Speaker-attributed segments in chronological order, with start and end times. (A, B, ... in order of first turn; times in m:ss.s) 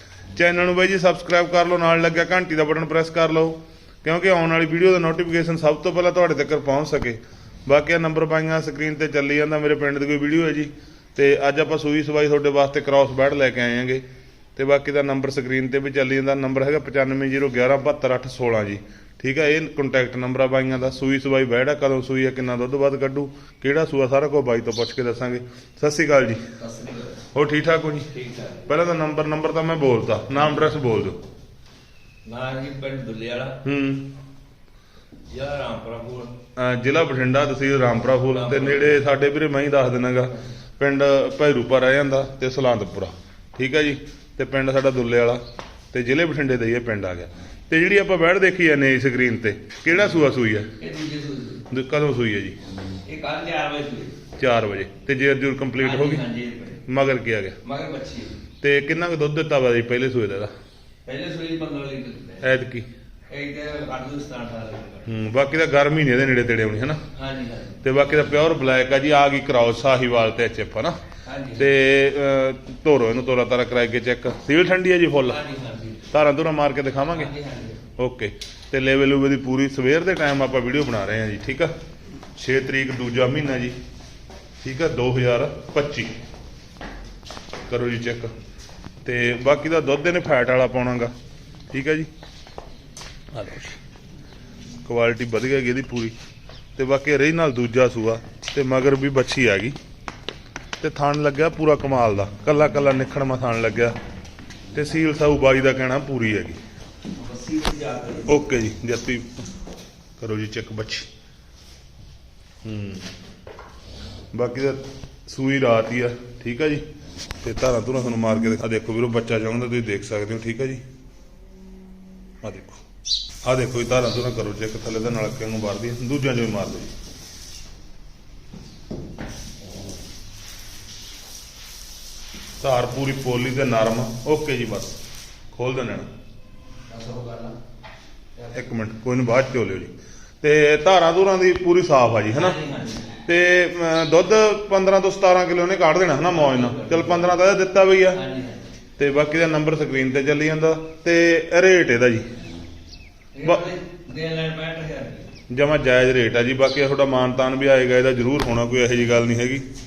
0:00.3-0:14.0 A
0:14.6-0:26.5 A
0:26.6-0:27.2 B
0:27.3-0:28.1 A
0:28.1-0:28.7 B
0:28.6-0:31.2 A
0:32.2-0:33.6 B
0:33.6-0:34.1 A
0:35.3-0:36.3 B
0:36.6-0:45.4 A
0:38.3-0:39.0 B
0:45.9-0:50.7 A
0:50.8-0:51.6 B
0:51.7-0:52.6 A
0:53.0-0:54.2 B
0:54.4-0:56.2 A
0:55.8-0:56.8 B
0:56.8-0:57.6 A
0:57.6-0:58.4 B
0:58.6-1:00.5 A
1:01.0-1:02.5 B
1:02.4-1:02.9 A
1:03.3-1:05.1 B
1:05.0-1:07.0 A
1:07.1-1:07.8 B
1:07.8-1:11.0 A
1:11.2-1:11.7 B
1:11.6-1:15.4 A
1:15.2-1:16.1 B
1:16.1-1:17.3 A
1:17.1-1:17.8 B
1:18.0-1:21.7 A
1:22.4-1:23.8 A
1:24.6-1:26.1 A
1:27.7-1:28.3 A
1:29.0-1:31.1 A
1:31.7-1:32.1 A
1:33.3-1:33.8 A
1:34.8-1:36.1 A
1:36.8-1:39.8 A
1:40.8-1:44.0 A
1:44.7-1:46.6 A
1:47.1-1:48.5 B
1:48.3-1:49.3 A
1:50.2-1:51.1 A
1:52.6-1:53.1 A
1:54.3-1:56.8 A
1:57.4-2:00.8 A
2:02.4-2:02.8 A
2:03.4-2:06.9 A
2:12.6-2:15.0 A
2:15.5-2:16.1 A
2:16.9-2:17.6 B
2:18.5-2:22.6 A
2:22.3-2:23.2 B
2:23.2-2:28.2 A
2:26.3-2:27.4 B
2:28.1-2:28.7 B
2:29.0-2:32.3 A
2:33.3-2:35.3 B
2:35.5-2:39.6 A